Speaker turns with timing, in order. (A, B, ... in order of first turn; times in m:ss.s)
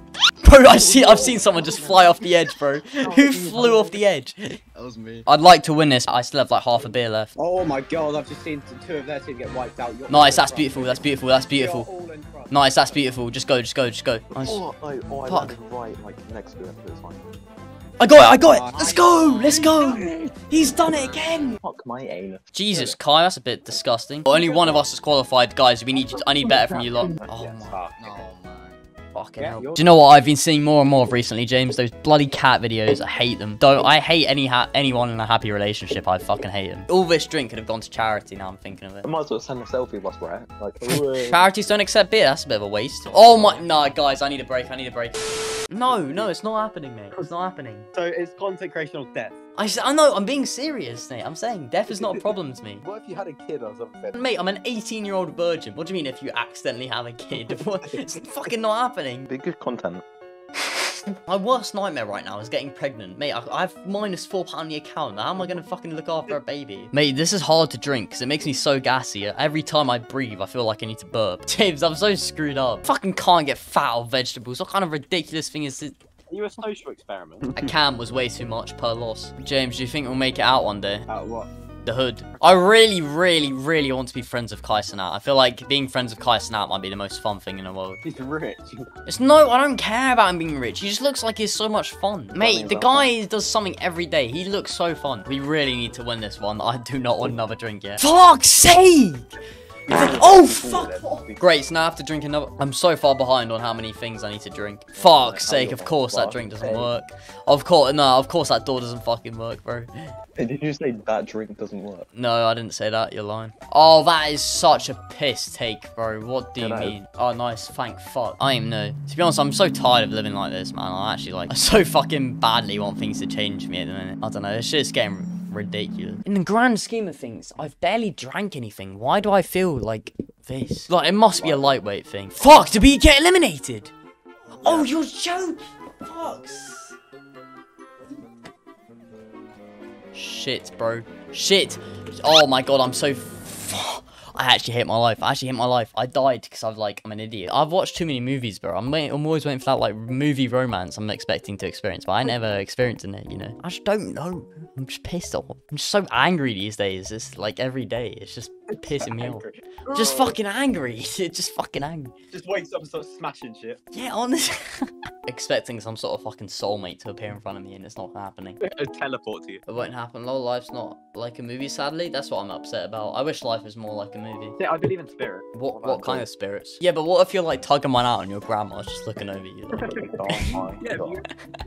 0:00.4-0:04.6 A
0:00.9-0:01.5 B
0:03.4-0:03.9 C
0:04.8-0:05.2 D
0:05.3-0:07.3 A
0:07.4-0:12.7 B
0:10.1-0:11.9 A
0:12.5-0:14.6 A
0:14.3-0:17.2 C
0:15.2-0:15.6 A
0:18.0-0:21.6 A
0:18.2-0:19.1 B
0:19.0-0:19.9 D
0:20.9-0:21.4 D
0:21.6-0:23.0 C
0:22.5-0:27.8 A
0:26.5-0:27.3 C
0:27.2-0:28.2 B
0:28.0-0:28.8 D
0:29.1-0:39.1 A
0:29.4-0:29.8 B
0:39.0-0:41.2 C
0:40.9-0:45.2 A
0:43.1-0:43.7 B
0:45.7-0:47.9 A
0:45.9-0:46.3 B
0:47.9-0:49.4 B
0:49.6-0:52.8 A
0:51.9-0:52.2 B
0:52.8-0:54.3 B
0:54.1-0:59.3 A
0:57.5-0:58.0 B
0:59.3-1:00.0 C
1:00.8-1:16.0 A
1:16.3-1:17.5 B
1:17.5-1:21.0 A
1:21.1-1:21.5 B
1:21.8-1:28.0 A
1:28.0-1:28.9 B
1:29.1-1:39.3 A
1:32.4-1:33.1 C
1:39.9-1:49.9 A
1:39.9-1:40.9 C
1:39.9-1:41.4 B
1:45.0-1:46.9 C
1:50.4-1:52.1 C
1:52.1-2:13.9 A
1:56.6-1:57.0 C
2:11.4-2:11.7 C
2:14.6-2:17.0 A
2:20.1-2:42.1 A
2:38.8-2:40.4 B
2:42.3-2:43.8 B
2:43.9-2:48.6 A
2:48.6-2:49.6 B
2:49.7-2:54.6 A
2:54.6-2:56.3 B
2:55.5-3:00.6 A
2:59.8-3:01.3 B
3:00.1-3:01.2 C